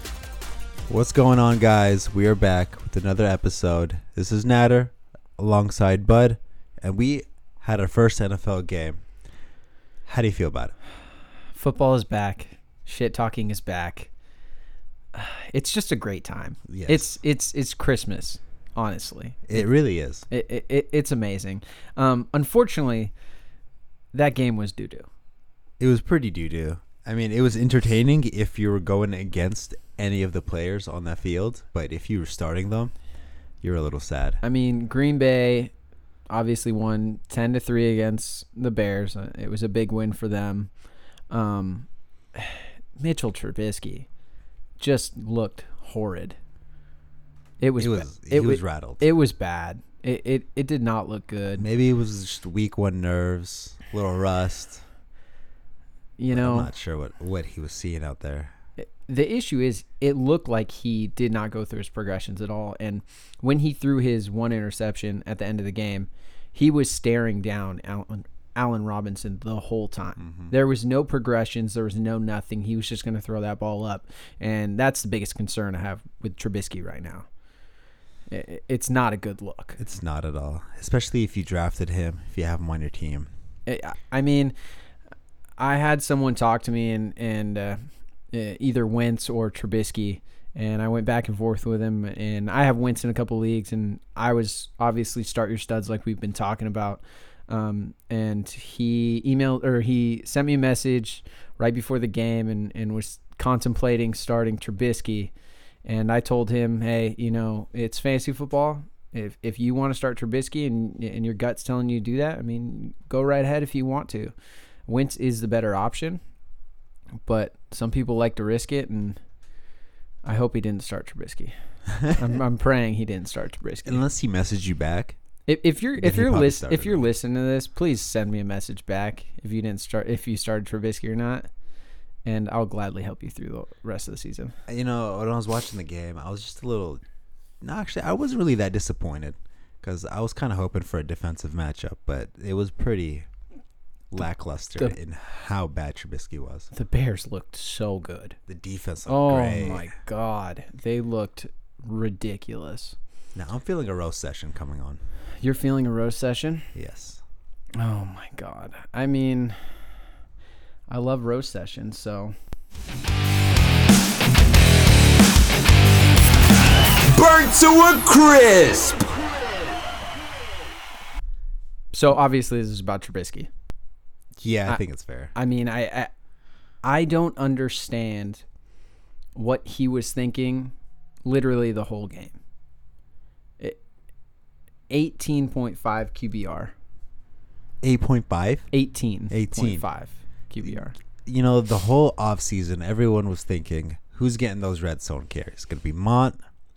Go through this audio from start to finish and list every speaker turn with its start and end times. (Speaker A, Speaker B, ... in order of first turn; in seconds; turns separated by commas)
Speaker A: 0.9-9.0, Speaker A: 10.1-10.7, Speaker B: 11.6-14.1, Speaker B: 15.1-19.6, Speaker A: 16.7-17.0, Speaker A: 19.5-20.3, Speaker B: 20.3-23.1, Speaker B: 24.1-25.1, Speaker A: 25.8-32.9, Speaker A: 33.6-34.4, Speaker B: 34.4-35.7, Speaker B: 36.3-40.7, Speaker B: 41.3-44.1, Speaker B: 44.8-46.4, Speaker B: 47.6-51.7, Speaker A: 47.8-49.0, Speaker A: 51.6-54.8, Speaker B: 56.2-56.7, Speaker A: 56.3-58.5, Speaker B: 58.8-77.3, Speaker A: 70.2-70.5, Speaker B: 78.3-79.8, Speaker A: 79.8-83.3, Speaker B: 83.7-84.5, Speaker B: 85.6-87.8, Speaker B: 88.3-105.3, Speaker B: 105.8-114.3, Speaker B: 114.9-116.2, Speaker B: 117.3-119.2, Speaker B: 120.2-124.0, Speaker A: 123.8-125.2, Speaker B: 125.5-131.5, Speaker A: 126.0-127.0, Speaker B: 132.2-134.6, Speaker A: 134.7-137.0, Speaker A: 137.6-143.3, Speaker A: 144.1-146.7, Speaker B: 146.7-148.4, Speaker A: 148.5-149.9, Speaker B: 149.1-153.0, Speaker A: 153.3-155.0, Speaker B: 155.4-156.7, Speaker A: 156.7-157.2, Speaker B: 157.8-159.8, Speaker B: 160.9-162.3, Speaker C: 167.1-169.1, Speaker B: 171.9-173.5, Speaker A: 174.4-175.3, Speaker B: 175.3-176.1, Speaker B: 176.8-178.4, Speaker B: 179.4-180.7, Speaker B: 181.2-182.4, Speaker B: 184.9-186.7, Speaker A: 187.8-188.7, Speaker B: 188.7-191.0, Speaker A: 189.3-189.9, Speaker A: 191.3-196.4